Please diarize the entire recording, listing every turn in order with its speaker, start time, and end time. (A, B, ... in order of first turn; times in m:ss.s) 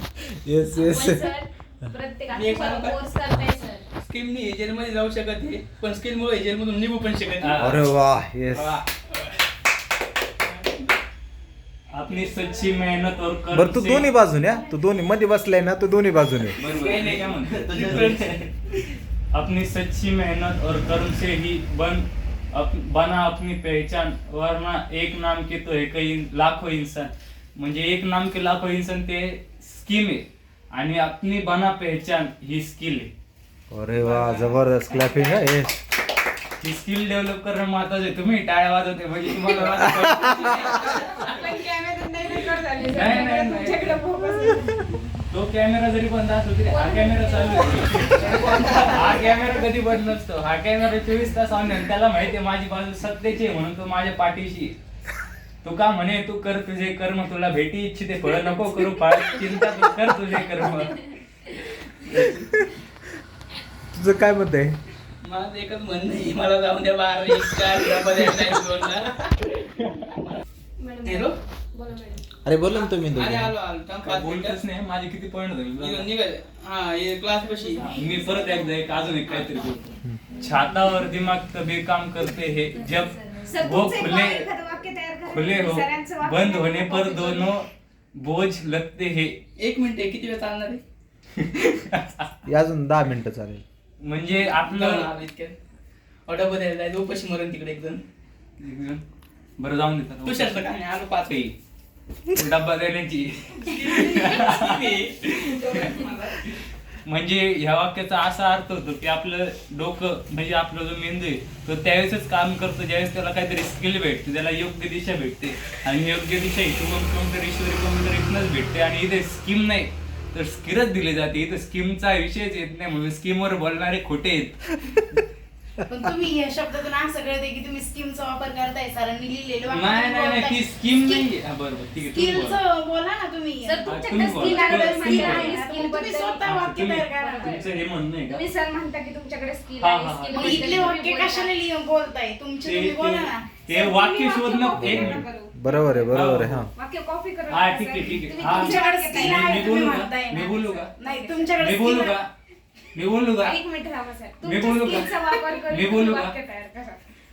0:00.2-0:01.3 A
0:00.7-0:03.8 B
0:02.3-0:03.0 C
0:04.0-0:07.7 C
0:07.4-0:07.8 D
0:07.6-0:08.8 A
0:08.6-0:09.3 C
0:11.9-0:14.1 D
0:12.1-0:13.2 B
0:13.5-0:16.7 A
0:14.0-0:14.6 B
0:16.6-0:18.5 D
0:16.6-0:18.5 C
0:19.3-0:33.1 D
0:33.7-0:35.8 A
0:34.0-0:34.6 C
0:36.6-0:41.0 D
0:40.2-0:41.0 C
0:40.7-0:45.0 B
0:42.9-0:44.0 D
0:45.3-0:54.8 D
0:46.7-0:49.4 B
0:55.6-1:01.1 D
1:02.1-1:02.7 A
1:03.9-1:04.8 A
1:05.2-1:09.4 C
1:10.2-1:10.4 C
1:10.8-1:12.2 B
1:11.0-1:11.4 C
1:12.4-1:13.5 A
1:12.7-1:14.6 C
1:14.0-1:16.1 D
1:15.8-1:18.0 C
1:17.5-1:21.1 B
1:17.8-1:24.5 D
1:19.3-1:19.6 C
1:22.7-1:27.6 B
1:25.3-1:29.4 D
1:29.6-1:30.8 C
1:31.4-1:32.3 D
1:32.5-1:33.6 A
1:34.0-1:35.1 D
1:34.4-1:35.6 C
1:36.3-1:38.0 C
1:38.6-1:39.0 D
1:39.6-1:40.6 D
1:40.2-1:41.5 C
1:41.3-1:41.6 D
1:42.3-2:05.2 D
1:43.6-1:46.4 C
2:05.9-2:11.3 E
2:09.7-2:12.6 D
2:12.1-2:17.6 E
2:13.6-2:16.5 B
2:13.9-2:15.6 D
2:16.4-2:18.4 D
2:17.1-2:21.5 B
2:19.8-2:21.0 D
2:20.3-2:23.6 E
2:22.6-2:25.2 D
2:23.7-2:26.2 B
2:24.7-2:26.7 A
2:26.1-2:26.7 D
2:26.7-2:30.1 B
2:27.5-2:30.9 D
2:28.5-2:32.2 E
2:31.0-2:31.6 B
2:31.6-2:32.3 D
2:32.9-2:33.6 D
2:33.4-2:37.0 B
2:34.4-2:36.3 D